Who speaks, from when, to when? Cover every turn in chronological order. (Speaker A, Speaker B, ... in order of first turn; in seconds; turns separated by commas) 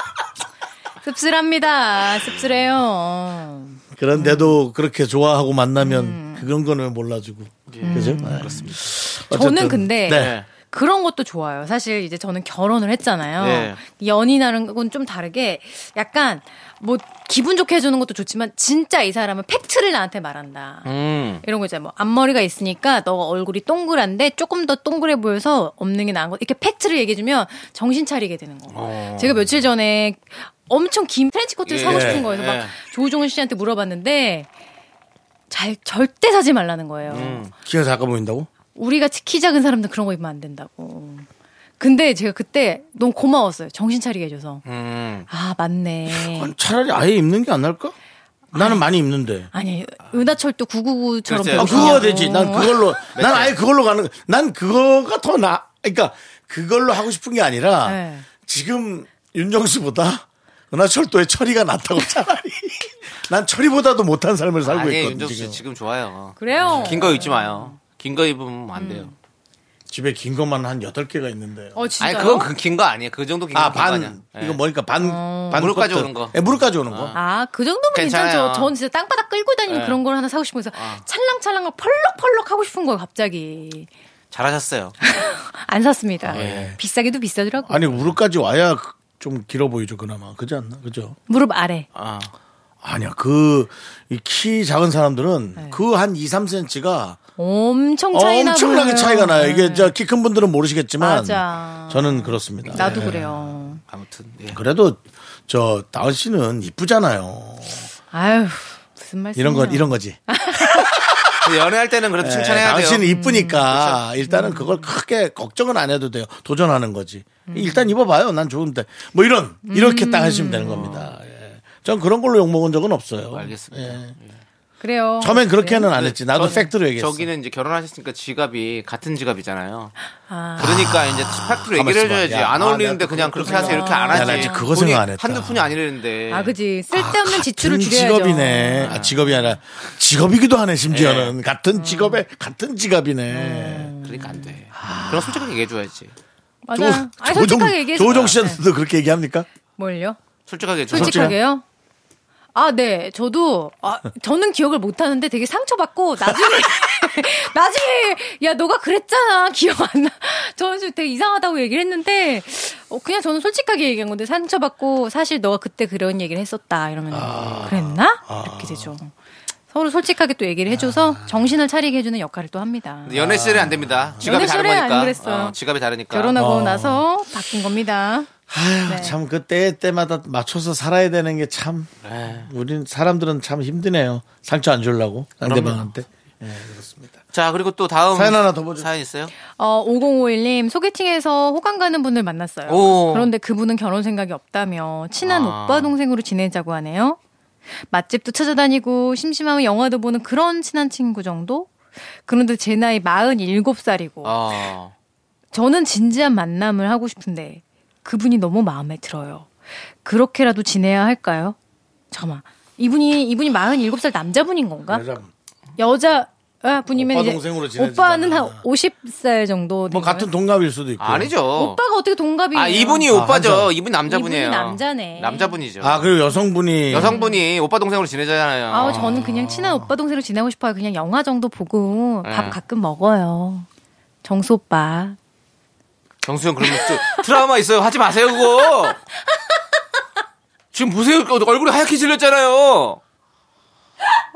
Speaker A: 1.0-4.6, Speaker B: 3.9-10.3, Speaker A: 5.8-6.5, Speaker C: 7.7-8.8, Speaker A: 7.8-8.7, Speaker A: 9.2-20.9, Speaker C: 10.1-10.5, Speaker C: 13.4-13.8, Speaker C: 20.8-21.4, Speaker A: 21.4-34.5, Speaker C: 28.7-29.5, Speaker C: 31.6-32.7, Speaker B: 31.9-32.2, Speaker A: 35.5-37.5, Speaker C: 37.1-37.5, Speaker B: 37.6-38.5, Speaker A: 38.7-41.2, Speaker A: 41.8-44.6, Speaker C: 44.6-45.3, Speaker A: 45.3-46.5, Speaker B: 46.1-47.9, Speaker B: 48.5-49.5, Speaker A: 48.5-48.8, Speaker A: 49.5-52.9, Speaker C: 51.3-52.1, Speaker B: 51.5-65.6, Speaker C: 53.1-53.5, Speaker A: 57.8-58.3, Speaker C: 64.6-69.1, Speaker A: 66.4-67.8, Speaker B: 66.6-67.1, Speaker A: 68.7-69.1, Speaker B: 69.9-71.8, Speaker A: 71.7-72.5, Speaker C: 72.0-74.6, Speaker B: 73.5-77.1, Speaker A: 75.0-75.7, Speaker C: 75.5-77.2, Speaker A: 77.1-83.9, Speaker C: 77.9-78.7, Speaker C: 79.7-80.0, Speaker C: 80.7-81.0, Speaker C: 84.3-84.9, Speaker A: 85.0-88.0, Speaker B: 86.2-86.8, Speaker C: 86.3-86.7, Speaker B: 87.7-91.2, Speaker A: 91.3-91.9, Speaker C: 91.9-92.3, Speaker B: 92.8-97.2, Speaker A: 95.6-95.8, Speaker A: 97.4-99.9, Speaker B: 98.1-103.5, Speaker A: 101.0-103.8, Speaker C: 102.7-103.1, Speaker C: 103.9-104.6, Speaker B: 104.5-107.9, Speaker A: 108.1-110.9, Speaker B: 109.3-111.4, Speaker C: 111.4-113.1, Speaker B: 112.2-124.1, Speaker A: 113.0-113.7, Speaker C: 113.7-114.0, Speaker A: 114.2-114.9, Speaker A: 117.5-117.9, Speaker A: 119.7-121.1, Speaker C: 123.3-124.4, Speaker A: 124.8-126.6, Speaker B: 125.2-127.3, Speaker C: 125.9-129.9, Speaker A: 130.3-130.9, Speaker C: 130.6-136.5, Speaker B: 130.6-135.7, Speaker A: 133.4-134.7, Speaker A: 136.3-139.5, Speaker B: 136.9-143.9, Speaker C: 138.8-139.2, Speaker C: 140.9-141.3, Speaker A: 141.8-142.2, Speaker A: 143.3-144.6, Speaker C: 144.0-146.1, Speaker B: 144.7-145.5, Speaker A: 146.7-148.6, Speaker B: 146.7-149.5, Speaker C: 148.0-148.4, Speaker A: 149.8-150.2, Speaker C: 150.5-151.3, Speaker A: 150.9-151.6, Speaker B: 150.9-151.4, Speaker A: 152.5-169.1, Speaker B: 167.1-168.9, Speaker C: 167.3-167.7, Speaker A: 169.7-173.1, Speaker B: 170.7-171.4, Speaker C: 173.1-176.3, Speaker B: 173.1-174.4, Speaker A: 174.2-175.6, Speaker A: 176.1-178.3, Speaker B: 176.3-177.0, Speaker B: 178.5-187.2, Speaker A: 178.8-179.2, Speaker C: 182.0-182.5, Speaker C: 185.4-185.8, Speaker C: 187.3-189.3, Speaker B: 188.1-188.9, Speaker A: 189.5-197.2, Speaker C: 192.7-193.3, Speaker C: 195.2-195.9, Speaker A: 197.9-201.7, Speaker A: 202.2-204.4, Speaker C: 204.2-204.9, Speaker A: 205.5-209.5, Speaker A: 210.0-211.6, Speaker A: 212.1-215.0, Speaker B: 214.9-215.3, Speaker A: 215.8-220.3, Speaker B: 216.9-218.6, Speaker B: 219.9-221.3, Speaker C: 221.0-221.8, Speaker A: 221.5-223.1, Speaker C: 222.5-226.1, Speaker B: 223.1-223.7, Speaker A: 224.1-225.6, Speaker B: 225.8-227.2, Speaker C: 226.9-229.6, Speaker A: 226.9-227.4, Speaker A: 228.7-233.7, Speaker C: 232.2-232.6, Speaker A: 234.2-235.2, Speaker C: 236.2-239.0, Speaker A: 236.6-237.1, Speaker C: 240.7-243.0